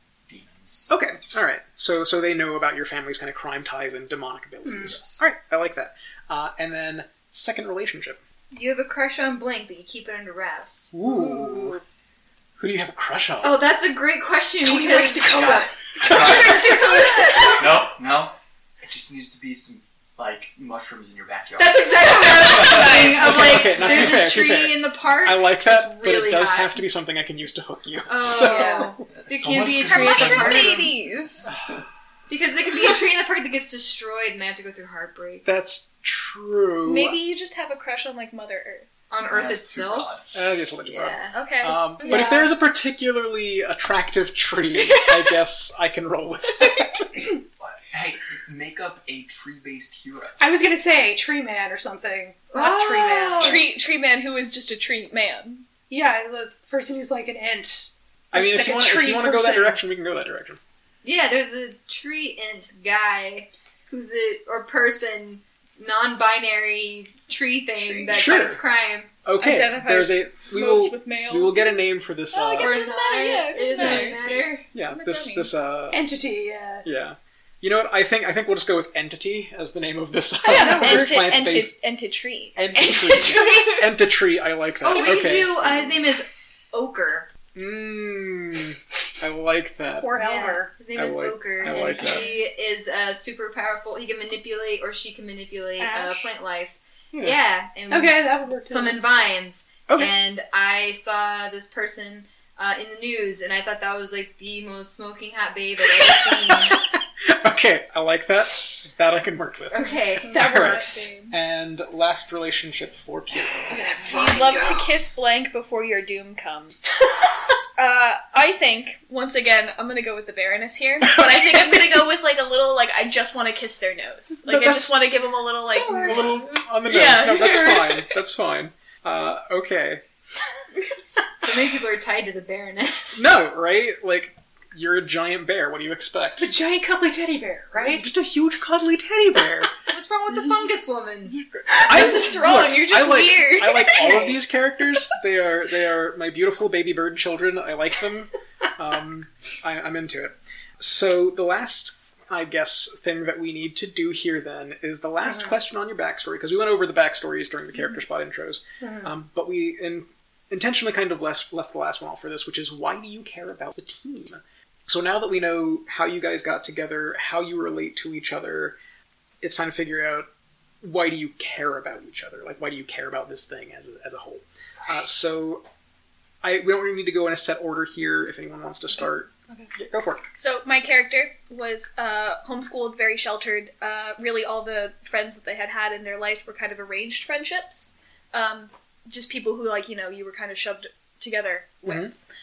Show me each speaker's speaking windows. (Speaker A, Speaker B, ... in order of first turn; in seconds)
Speaker A: 0.3-0.9, 4.8-5.3, 15.3-16.8, 17.4-22.9, 29.1-30.7, 31.5-31.8, 39.3-40.3, 47.6-50.4
Speaker B: 0.9-8.2, 10.9-11.8, 12.6-13.6, 16.1-16.5, 22.9-28.9, 29.9-30.6, 35.4-37.2, 40.3-47.3, 58.3-60.6, 68.1-68.6, 69.2-72.8, 73.8-74.2, 74.7-76.0, 76.8-81.7, 82.5-85.9, 87.5-90.1, 90.9-92.3, 97.1-97.4, 99.9-100.1, 105.8-114.0, 121.1-121.7, 124.4-125.0, 126.0-130.0, 133.2-136.5, 137.7-139.7, 141.7-168.8, 169.4-170.3, 170.8-175.6, 176.4-180.2, 191.8-192.1
Speaker C: 4.6-5.0, 11.0-11.8, 14.6-17.5, 28.4-28.9, 42.0-42.5, 50.4-53.7, 55.9-59.8, 75.9-76.9, 80.4-81.4, 90.0-90.8, 91.8-92.2, 97.9-99.0, 114.0-114.8, 125.8-126.5, 136.4-138.1, 155.2-155.6, 158.8-159.1
Speaker D: 8.5-10.9, 13.4-17.8, 21.6-26.8, 28.1-31.0, 32.3-35.5, 39.1-40.1, 40.8-41.4, 52.5-53.7, 61.0-69.1, 72.6-74.7, 84.8-87.3, 90.1-106.8, 109.7-111.0, 113.7-114.6, 131.3-133.3, 139.9-141.4
Speaker E: 22.3-24.2, 28.4-28.9, 29.8-31.5, 36.8-38.9, 41.3-42.4, 44.8-45.3, 46.6-46.9, 53.4-55.6, 67.8-68.2, 69.4-71.7, 72.3-75.5, 80.5-83.9, 91.7-92.3, 95.8-96.3, 110.2-111.3, 114.0-117.0, 117.8-128.1, 141.7-144.4, 180.3-192.1